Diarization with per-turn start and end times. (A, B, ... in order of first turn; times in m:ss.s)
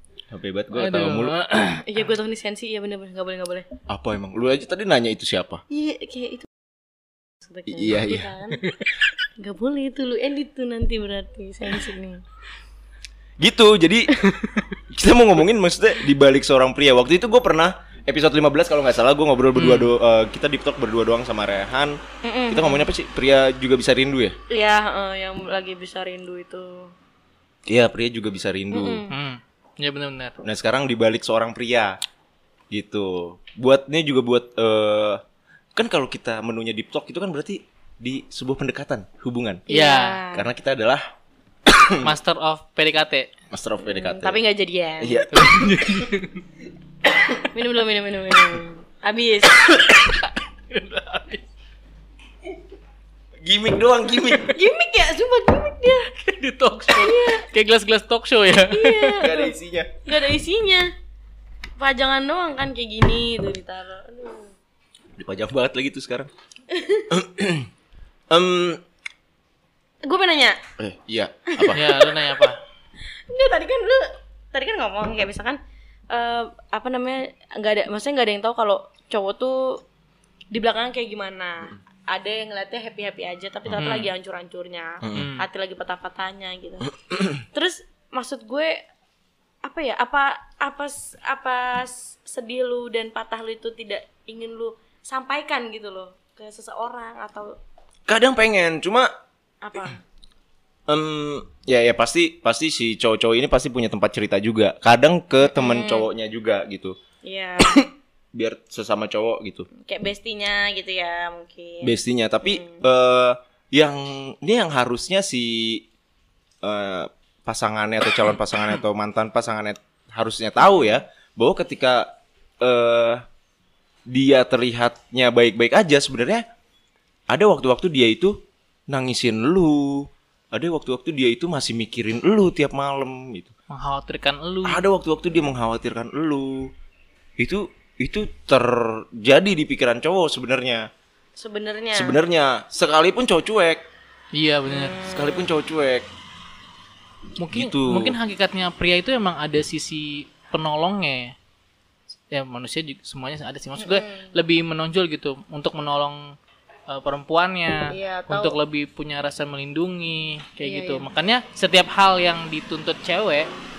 0:00.3-0:01.4 A
0:00.8-0:02.1 B
0:01.8-0:03.6 C
0:03.9-0:05.6 A
0:05.7-0:06.5 C
0:07.5-0:08.6 C
0:07.7-0:08.3 A
0:09.4-0:12.2 C
0:13.4-0:14.1 A
0:14.9-0:24.4 A
0:19.6-0:19.9 B
0:22.2-0:22.9 C
0:24.5-0:26.9 C
0:27.7-0:29.0 A
0:28.7-0:29.2 C
0:29.1-0:30.4 B
0:30.4-0:32.0 A
0:32.7-0:35.2 A
0:35.8-0:39.7 A
0:39.7-0:40.2 B
0:39.7-0:40.5 C
0:40.3-0:41.0 A
0:41.7-0:42.1 A
0:42.0-0:43.3 B
0:43.5-0:44.4 A
0:43.9-0:45.2 C
0:45.0-0:45.9 A
0:45.3-0:46.4 B
0:47.4-0:49.7 C
0:49.9-0:51.4 B
0:53.4-0:54.6 A
0:54.4-0:56.1 C
0:56.1-0:59.3 B
0:57.0-0:57.4 C
0:58.7-0:59.5 C
0:59.2-0:59.9 A
1:00.1-1:00.9 C
1:01.8-1:04.5 C
1:05.2-1:06.3 A
1:06.7-1:07.1 C
1:07.1-1:07.7 A
1:08.3-1:08.8 A
1:10.0-1:10.6 C
1:10.8-1:11.9 A
1:11.7-1:12.6 B
1:13.3-1:15.6 C
1:16.1-1:19.8 C
1:20.5-1:28.8 C
1:23.7-1:24.1 B
1:25.0-1:25.3 A
1:25.1-1:25.5 B
1:29.6-1:37.6 C
1:38.1-1:39.1 A
1:39.6-1:40.0 C
1:40.9-1:47.0 A
1:45.5-1:46.1 C
1:47.2-1:47.9 C
1:48.3-1:49.7 A
1:49.8-1:52.0 C
1:51.8-1:55.8 A
1:52.5-1:52.8 C
1:56.6-2:02.1 A
2:02.6-2:03.2 A
2:04.1-2:06.4 A
2:07.3-2:08.4 A
2:08.9-2:13.5 A
2:13.7-2:14.8 B
2:14.6-2:16.7 A
2:17.4-2:20.9 A
2:21.4-2:22.2 C
2:21.9-2:23.8 A
2:24.3-2:25.0 B
2:24.7-2:25.5 C
2:25.1-2:26.1 A
2:27.4-2:31.3 B
2:27.5-2:28.2 A
2:32.3-2:36.4 B
2:33.8-2:34.3 C
2:36.9-2:43.5 B
2:37.9-2:38.6 C
2:40.6-2:41.1 C